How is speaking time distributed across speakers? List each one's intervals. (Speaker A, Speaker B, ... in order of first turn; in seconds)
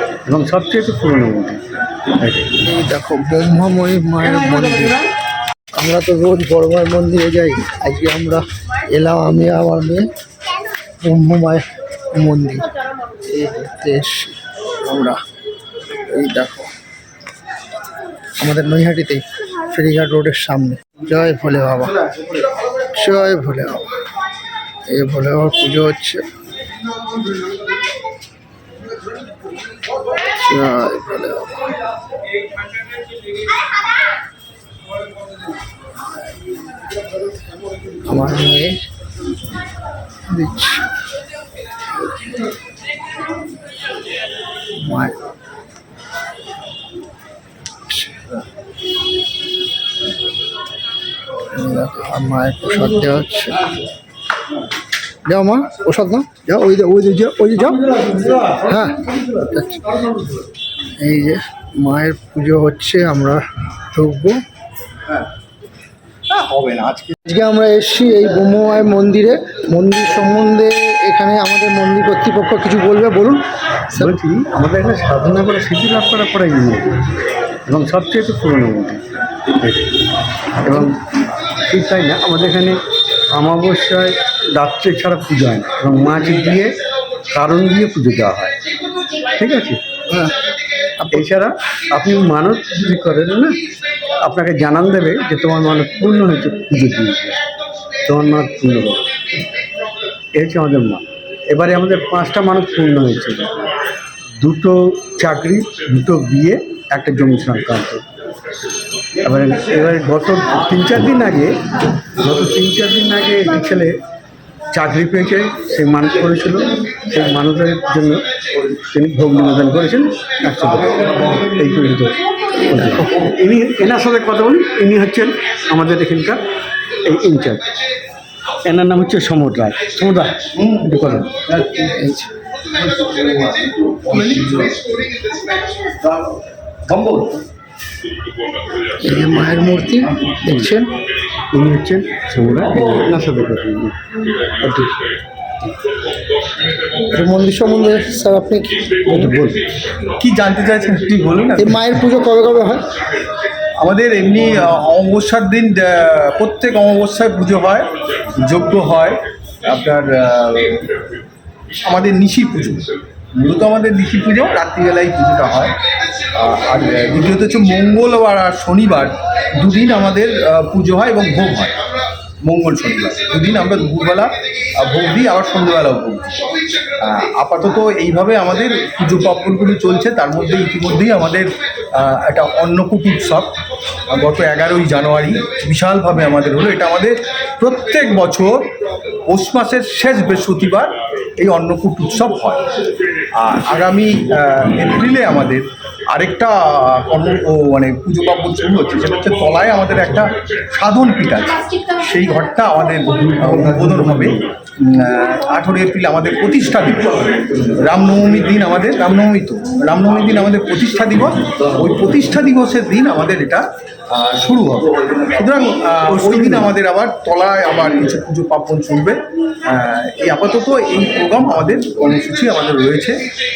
Speaker A: 0.2-1.6, 2.2-2.5, 58.0-58.4, 74.0-77.0, 77.7-79.0, 79.6-79.9, 80.6-80.9, 81.7-82.8, 83.3-86.8, 87.3-88.5, 89.3-89.8, 91.1-93.6, 94.2-97.4, 98.0-99.0, 100.3-103.5, 104.4-108.0, 109.2-111.6, 112.1-114.0, 114.7-118.2, 118.9-126.4, 127.0-127.6, 128.6-131.3, 141.5-143.9, 144.5-144.9, 149.1-149.6, 203.4-204.4, 216.2-216.7
Speaker B: 2.6-5.0, 5.8-10.0, 11.0-12.7, 13.2-15.2, 16.1-16.7, 18.4-22.0, 22.9-23.9, 24.9-26.2, 30.3-31.6, 38.0-38.8, 40.3-40.9, 42.0-42.3, 44.8-45.2, 47.9-48.4, 51.5-53.7, 55.2-57.9, 58.5-60.0, 61.0-64.4, 67.2-74.1, 90.1-90.3, 91.0-91.3, 131.9-132.3, 139.0-140.9, 147.0-149.2, 151.6-152.8
Speaker C: 66.3-67.1, 130.5-131.9, 132.7-135.0, 135.9-136.3, 136.9-137.4, 150.2-152.0, 153.8-160.9, 161.8-165.8, 166.3-171.8, 172.4-176.4, 177.0-183.5, 184.1-188.7, 189.3-192.7, 193.3-223.2